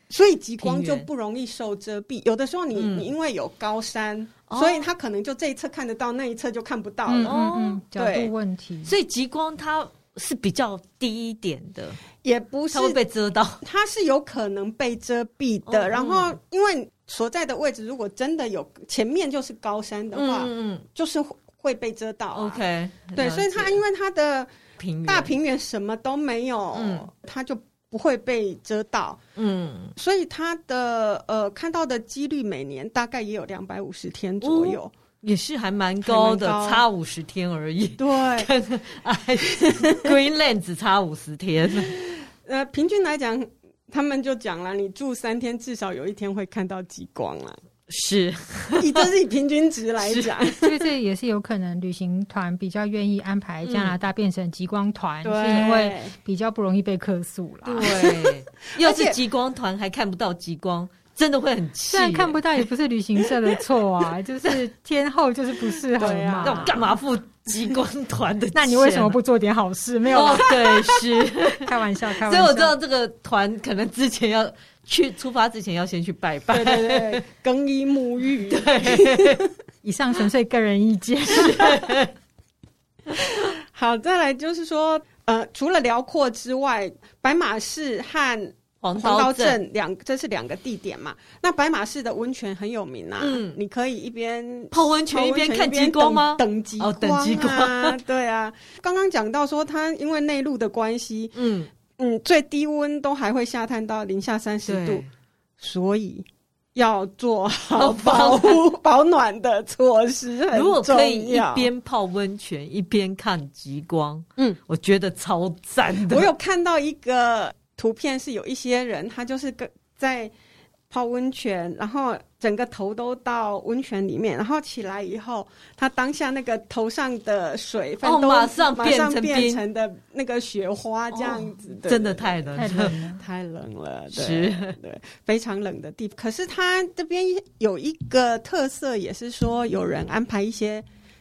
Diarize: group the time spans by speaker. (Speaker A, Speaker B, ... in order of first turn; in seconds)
Speaker A: 0.1-7.4, 7.9-8.3, 12.2-13.0, 13.6-22.6, 23.1-24.5, 25.0-29.2, 29.9-34.9, 36.0-36.8, 38.0-38.5, 39.5-40.1, 41.9-47.6, 48.8-50.9, 55.2-56.1, 58.7-59.2, 66.0-66.8, 76.5-79.5, 83.1-101.3, 101.9-105.0, 105.6-111.7, 116.0-120.3, 120.9-140.8
Speaker B: 0.6-1.1, 2.7-3.1, 4.5-4.9, 7.2-7.8, 8.8-12.0, 12.7-13.6, 15.7-16.4, 20.1-20.8, 22.3-23.8, 24.8-25.3, 26.7-27.1, 29.4-29.9, 34.4-41.9, 47.9-49.1, 50.0-50.3, 53.6-54.0, 57.6-62.4, 66.4-69.2, 70.1-77.2, 78.5-79.4, 81.2-82.1, 88.8-89.6, 93.2-93.6, 94.7-98.0, 101.3-101.7, 104.7-105.1, 107.8-108.6, 110.5-116.3, 128.0-129.6, 131.1-133.0, 134.1-134.8
Speaker C: 7.1-8.9, 50.6-58.0, 61.9-66.8, 68.5-70.8, 71.5-72.7, 79.8-82.0, 132.6-133.2